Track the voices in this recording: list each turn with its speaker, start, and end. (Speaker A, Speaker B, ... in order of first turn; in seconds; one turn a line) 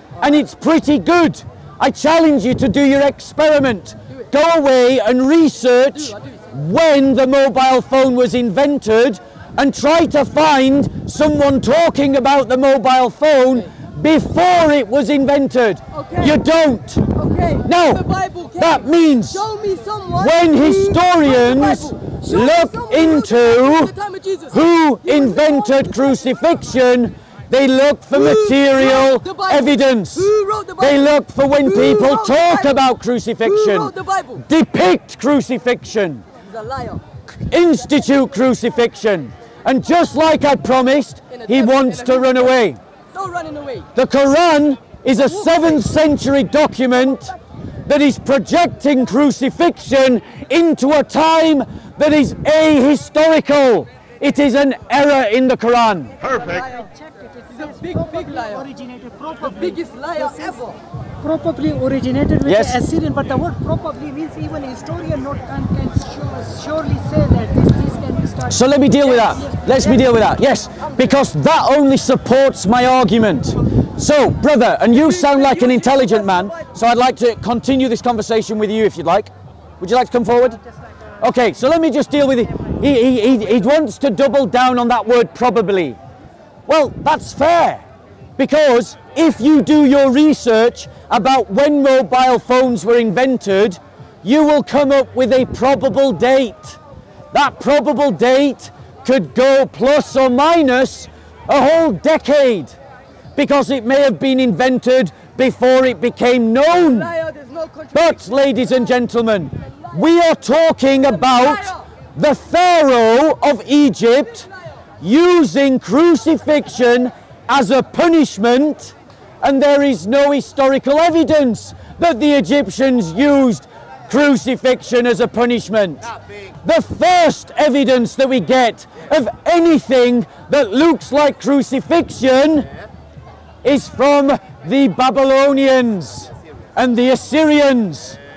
Speaker A: 0.2-0.4
Speaker B: 0.2-17.0
Speaker A: 5.9-6.5
Speaker A: 15.9-16.4
Speaker A: 17.1-26.6
Speaker B: 17.6-18.0
Speaker B: 18.6-19.4
Speaker B: 20.2-23.9
Speaker B: 24.5-36.2
Speaker A: 28.1-32.8
Speaker A: 33.4-34.4
Speaker A: 36.4-37.0
Speaker B: 37.4-42.8
Speaker A: 41.3-42.6
Speaker A: 43.1-43.9
Speaker B: 43.9-47.3
Speaker A: 45.1-46.2
Speaker A: 46.9-47.3
Speaker B: 47.9-56.3
Speaker A: 56.2-56.9
Speaker C: 56.3-60.6
Speaker A: 57.5-58.7
Speaker A: 59.4-60.8
Speaker C: 61.2-70.1
Speaker B: 62.4-62.8
Speaker B: 68.5-80.6
Speaker A: 70.8-71.2
Speaker A: 74.8-76.7
Speaker B: 81.2-86.0
Speaker B: 86.7-87.8
Speaker B: 88.4-96.8
Speaker B: 97.3-102.7
Speaker B: 103.3-107.1
Speaker A: 106.7-110.1
Speaker B: 107.9-114.5
Speaker A: 110.8-111.9
Speaker B: 115.0-126.1
Speaker B: 126.6-132.7
Speaker B: 133.6-138.2